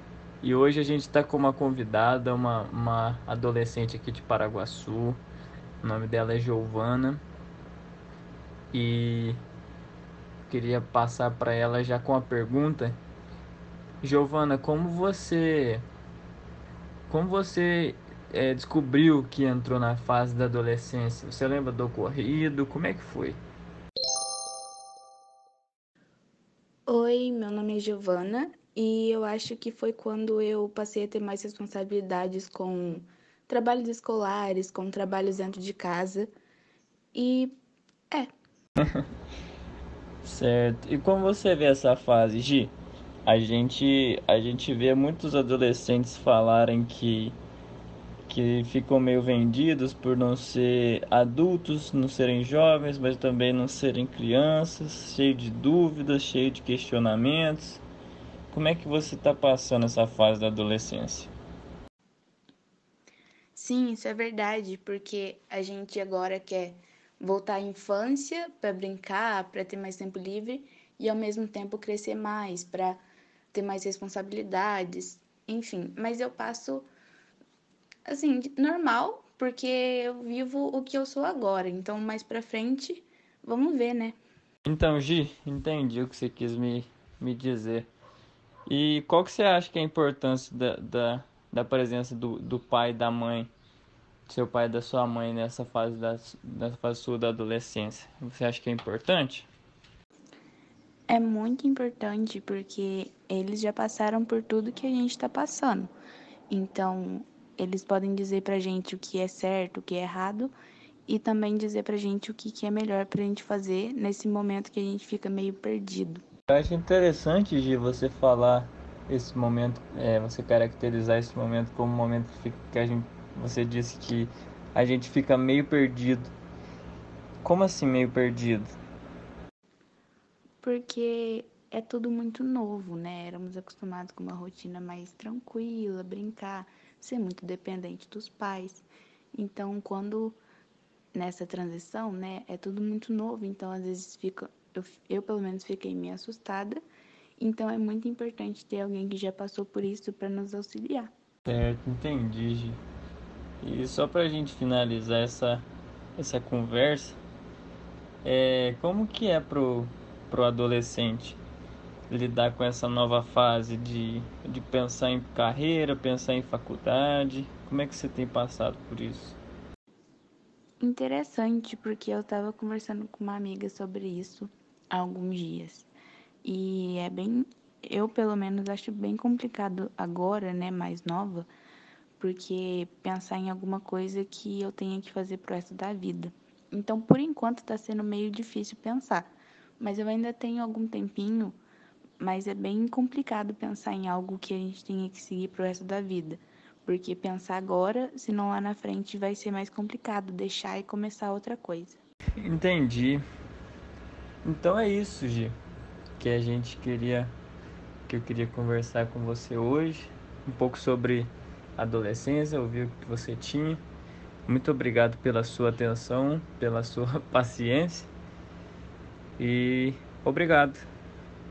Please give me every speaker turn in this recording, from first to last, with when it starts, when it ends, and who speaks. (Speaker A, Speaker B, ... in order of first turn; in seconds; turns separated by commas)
Speaker A: 0.4-5.2, Speaker A: 5.8-7.2, Speaker A: 8.7-9.4, Speaker A: 10.5-13.0, Speaker A: 14.0-15.9, Speaker A: 17.1-23.4, Speaker B: 26.9-36.3, Speaker B: 37.1-37.6, Speaker A: 40.2-42.7, Speaker A: 43.2-47.4, Speaker A: 48.3-57.8, Speaker A: 58.5-61.3, Speaker B: 63.5-73.0, Speaker B: 73.5-76.9, Speaker B: 78.0-84.2, Speaker A: 84.6-87.9, Speaker A: 88.7-93.5, Speaker A: 94.3-99.5, Speaker B: 101.1-105.9, Speaker B: 106.5-110.5, Speaker B: 111.1-116.2, Speaker A: 116.5-126.3, Speaker A: 127.4-128.7, Speaker B: 130.6-140.4, Speaker B: 141.1-146.8, Speaker B: 147.4-151.1, Speaker A: 151.4-152.8, Speaker A: 153.6-157.2, Speaker A: 158.2-161.4, Speaker A: 162.1-169.4, Speaker B: 170.8-175.9, Speaker B: 176.4-181.5, Speaker B: 182.2-191.6, Speaker B: 192.2-202.0, Speaker A: 202.4-203.2, Speaker A: 204.4-205.6, Speaker A: 206.2-207.3, Speaker A: 208.1-213.8, Speaker A: 214.4-218.1, Speaker A: 219.4-220.9